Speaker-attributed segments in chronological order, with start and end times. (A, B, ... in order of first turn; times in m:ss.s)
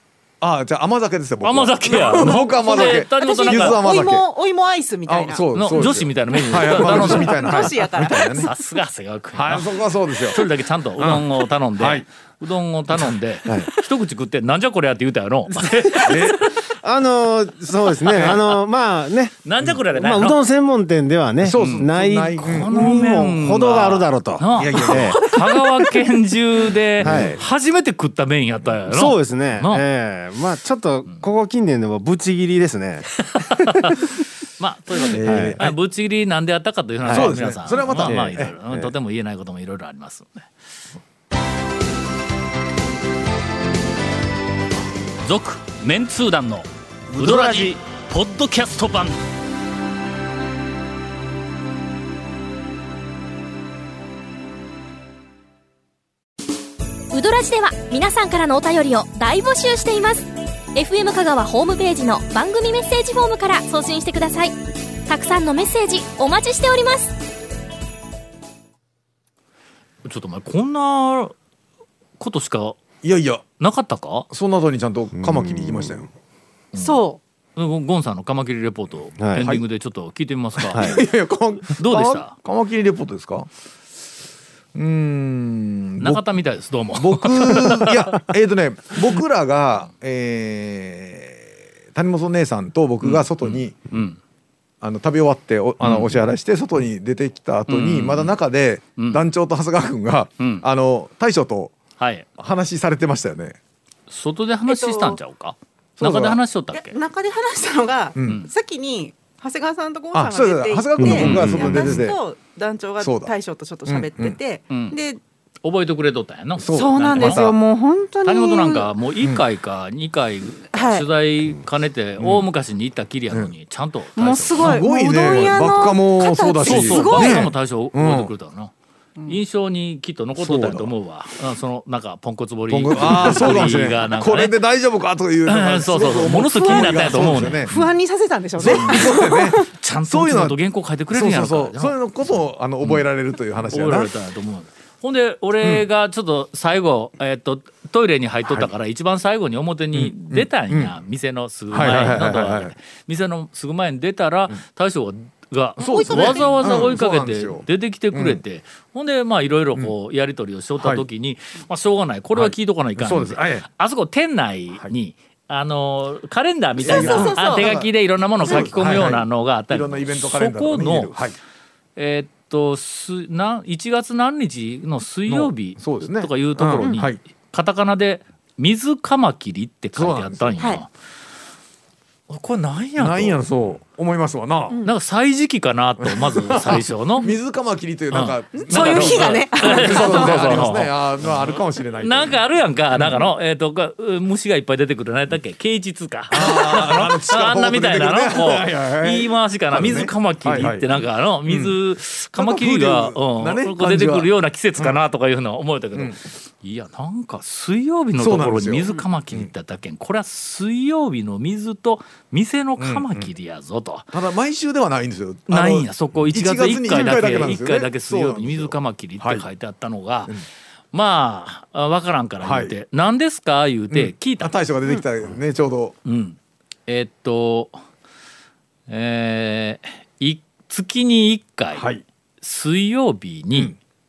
0:00.4-0:04.2 A
0:01.4-0:03.8 B
0:02.2-0:05.5 C
0:05.0-0:08.5 A
0:05.5-0:16.6 B
0:06.5-0:08.5 C
0:09.4-0:10.4 A
0:11.0-0:12.0 A
0:16.0-0:16.4 A
0:16.8-0:25.3 D
0:18.0-0:18.4 B
0:18.1-0:18.4 A
0:19.4-0:20.4 B
0:21.4-0:22.9 A
0:21.5-0:29.9 B
0:24.6-0:25.2 A
0:27.0-0:27.4 D
0:28.8-0:33.1 D
0:33.3-0:40.5 B
0:35.0-0:35.8 A
0:35.2-0:35.6 D
0:37.0-0:37.3 D
0:37.1-0:38.6 A
0:38.0-0:38.9 D
0:45.2-0:49.2 B
0:47.1-0:47.7 A
0:57.1-1:04.6 E
1:05.1-1:07.1 E
1:10.0-1:11.4 B
1:12.2-1:12.8 B
1:13.0-1:13.4 A
1:13.6-1:14.3 B
1:14.3-1:16.1 A
1:15.2-1:15.9 D
1:16.7-1:17.0 B
1:16.8-1:17.2 C
1:17.6-1:21.0 B
1:19.2-1:19.5 D
1:19.4-1:19.6 A
1:20.6-1:23.5 A
1:21.8-1:22.4 B
1:24.8-1:26.2 A
1:26.0-1:28.2 B
1:27.0-1:33.8 A
1:33.0-1:34.2 B
1:34.8-1:41.7 A
1:35.8-1:36.1 B
1:37.7-1:38.3 B
1:40.4-1:40.6 B
1:42.0-1:42.2 B
1:42.4-1:43.6 A
1:44.1-1:47.0 B
1:44.7-1:45.2 C
1:46.0-1:46.4 A
1:46.7-1:55.2 C
1:48.2-1:48.5 A
1:50.1-1:52.2 A
1:51.0-1:51.8 D
1:53.0-1:53.3 A
1:53.9-1:54.4 A
1:54.7-1:55.0 B
1:55.6-1:57.5 B
1:56.6-1:57.6 A
1:56.7-1:58.9 C
1:58.2-2:05.4 B
2:00.7-2:01.1 C
2:02.2-2:02.5 A
2:04.2-2:07.5 C
2:04.6-2:08.3 A
2:06.6-2:08.7 B
2:09.3-2:14.6 B
2:10.4-2:10.9 A
2:12.7-2:17.9 A
2:15.5-2:17.7 B
2:16.6-2:19.7 C
2:18.6-2:20.6 A
2:18.6-2:22.0 B
2:21.1-2:24.1 A
2:22.8-2:23.1 B
2:23.7-2:51.1 B
2:25.6-2:25.9 A
2:28.4-2:28.7 A
2:29.9-2:31.0 A
2:31.7-2:32.7 A
2:35.8-2:36.9 C
2:35.8-2:38.4 A
2:40.8-2:41.1 A
2:42.4-2:43.6 A
2:46.8-2:51.4 A
2:46.9-2:47.8 C
2:48.5-2:48.9 C
2:52.0-3:00.9 B
2:55.3-2:57.2 A
2:59.9-3:00.6 A
3:02.3-3:03.4 B
3:03.0-3:04.8 A
3:04.8-3:07.3 B
3:06.0-3:12.4 A
3:08.1-3:34.1 B
3:08.6-3:10.8 C
3:12.9-3:13.3 A
3:16.3-3:20.9 A
3:21.4-3:21.8 A
3:22.4-3:25.0 A
3:28.1-3:29.5 A
3:32.8-3:33.3 A
3:34.1-3:39.5 A
3:35.5-3:40.4 B
3:40.9-3:44.5 B
3:42.4-3:42.7 A
3:43.9-3:45.9 A
3:46.0-3:47.8 B
3:48.9-3:51.9 B
3:51.7-3:52.0 A
3:52.4-3:53.7 B